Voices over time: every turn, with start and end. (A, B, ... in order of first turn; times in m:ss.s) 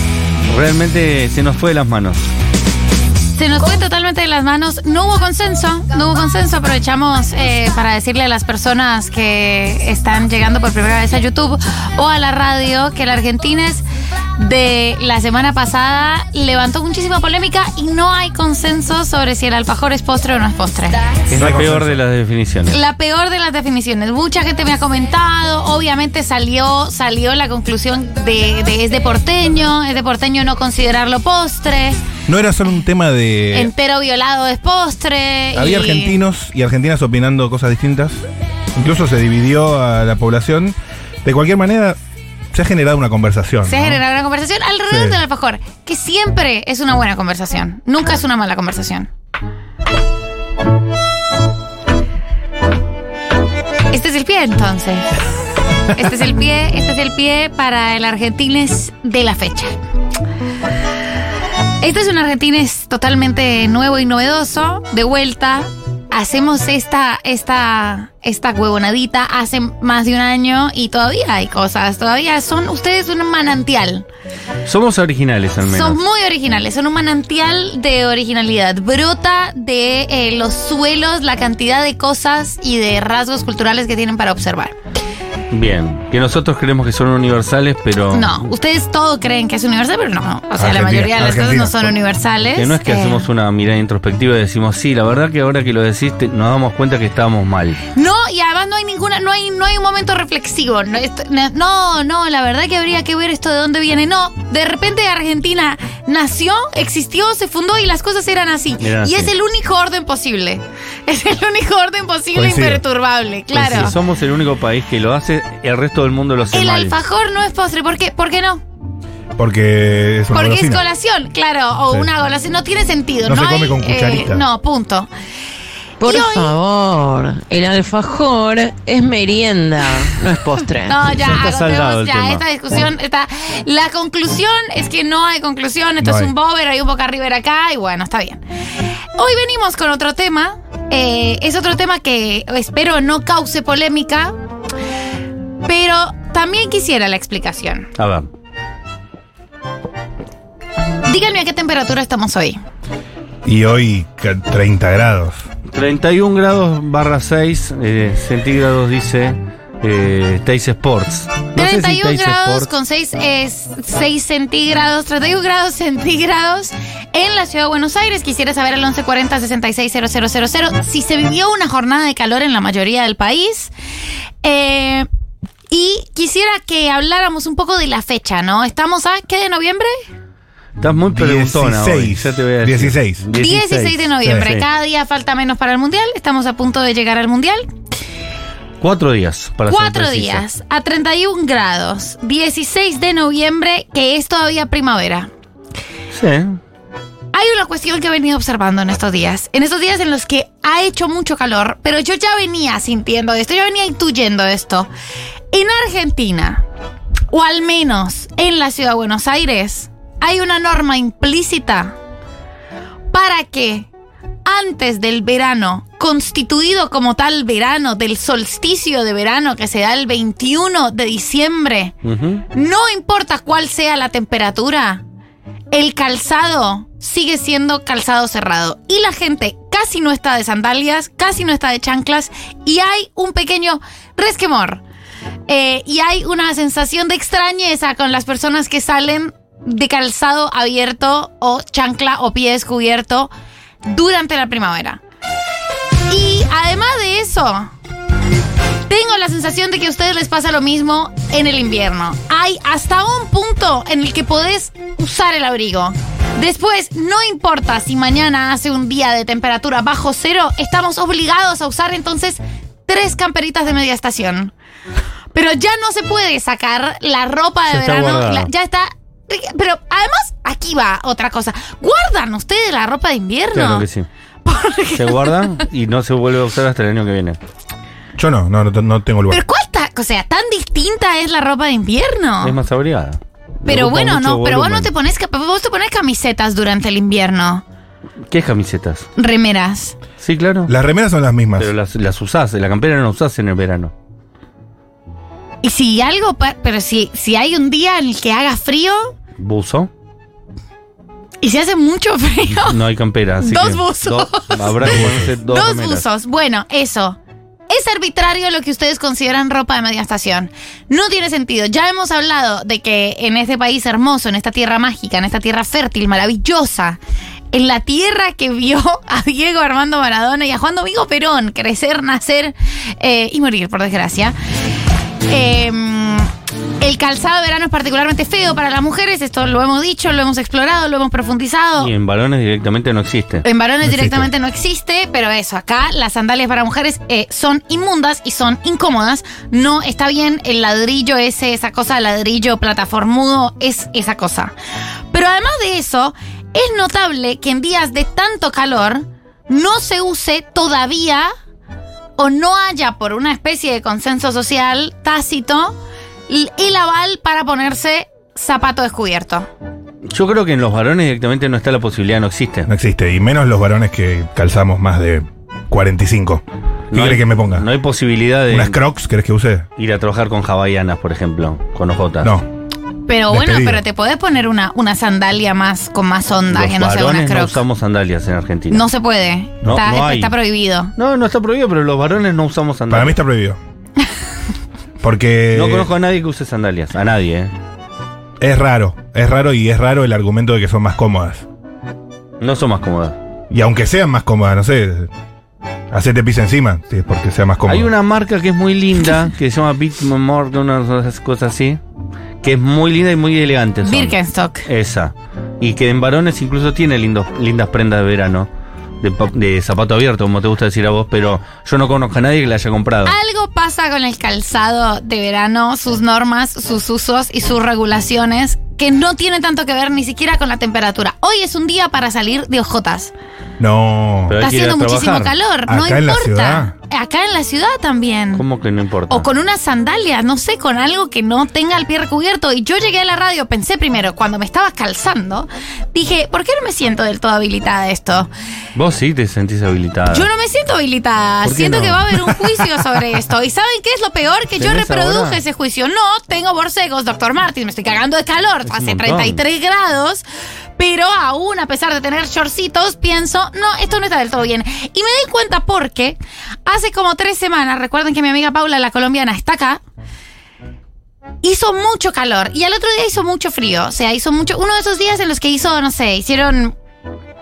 0:00.5-0:02.2 A
0:03.4-0:13.8 B
0:14.4-0:21.0 B
0:21.3-0:22.8 A
0:21.4-0:22.0 C
0:22.7-0:32.0 B
0:32.3-0:33.7 C
0:33.5-0:36.2 B
0:35.5-0:38.2 C
0:38.8-0:42.0 C
0:42.5-0:44.0 C
0:43.7-0:49.1 B
0:44.9-0:45.2 C
0:53.9-0:55.1 B
0:56.0-0:59.7 B
1:01.8-1:14.1 B
1:14.6-1:16.0 A
1:15.7-1:24.8 B
1:25.5-1:28.5 A
1:28.1-1:33.2 B
1:30.6-1:32.0 C
1:32.5-1:37.8 A
1:38.0-1:53.9 B
1:48.8-1:49.3 A
1:52.3-1:52.8 C
1:53.5-1:56.9 A
1:56.5-1:58.6 B
1:59.4-2:00.8 C
2:00.3-2:05.1 B
2:03.3-2:04.4 C
2:06.0-2:11.0 D
2:06.0-2:06.6 B
2:10.9-2:18.4 B
2:11.0-2:12.4 A
2:16.0-2:16.3 C
2:19.2-2:24.4 B
2:25.6-2:27.9 B
2:28.0-2:28.3 A
2:31.1-2:32.6 B
2:33.4-2:35.5 C
2:35.7-2:42.7 A
2:41.6-2:53.7 B
2:54.4-2:55.1 B
2:55.7-3:00.0 B
3:00.8-3:04.7 A
3:01.1-3:03.3 C
3:03.4-3:07.7 B
3:08.8-3:10.4 A
3:09.7-3:15.3 B
3:16.1-3:16.6 A
3:17.3-3:24.9 B
3:25.5-3:26.6 B
3:27.3-3:32.0 B
3:33.1-3:33.9 B
3:34.4-3:42.0 B
3:42.0-3:42.4 A
3:42.5-3:45.0 B
3:45.7-3:54.8 B
3:55.5-4:03.3 B
4:03.8-4:05.0 B
4:06.1-4:07.7 B
4:08.9-4:24.5 B
4:25.3-4:33.8 B
4:27.7-4:28.5 A
4:33.5-4:34.1 A
4:34.4-4:35.3 B
4:35.0-4:37.4 A
4:38.2-4:39.4 C
4:39.3-4:42.6 B
4:42.4-4:44.9 A
4:43.7-4:47.6 B
4:48.3-4:49.1 A
4:49.2-4:50.0 B
4:50.2-4:50.7 A
4:50.7-4:51.7 C
4:51.6-4:53.9 A
4:55.6-4:59.2 B
4:59.4-4:59.9 A
5:01.4-5:02.8 B
5:02.6-5:06.0 A
5:03.4-5:07.2 B
5:04.8-5:05.3 C
5:07.7-5:17.0 B
5:17.5-5:24.4 B
5:25.3-5:26.3 B
5:26.8-5:31.9 B
5:31.8-5:34.1 A
5:33.4-5:44.5 B
5:45.1-5:51.3 B
5:52.2-5:55.8 B
5:56.3-5:59.5 B
6:00.1-6:02.7 A
6:02.7-6:07.7 C
6:06.9-6:08.8 A
6:08.5-6:09.7 C
6:09.8-6:12.3 A
6:12.2-6:12.5 C
6:13.1-6:17.6 B
6:13.3-6:13.8 C
6:16.5-6:18.9 A
6:18.7-6:20.9 B
6:19.6-6:20.3 A
6:21.0-6:23.2 A
6:22.9-6:23.6 C
6:25.0-6:25.9 C
6:25.5-6:27.5 A
6:28.4-6:31.4 C
6:32.4-6:33.2 A
6:33.5-6:35.1 C
6:35.9-6:37.9 C
6:37.7-6:41.8 A
6:42.4-6:48.5 A
6:43.8-6:44.6 B
6:49.0-6:53.2 A
6:53.1-7:03.1 B
7:03.6-7:04.4 C
7:04.3-7:05.3 A
7:04.4-7:08.4 B
7:05.7-7:06.7 C
7:08.4-7:09.3 A
7:09.1-7:18.3 B
7:18.8-7:20.3 A
7:20.1-7:30.2 B
7:21.4-7:22.3 A
7:24.6-7:25.4 A
7:28.7-7:29.4 A
7:30.8-7:39.8 B
7:41.4-7:46.8 B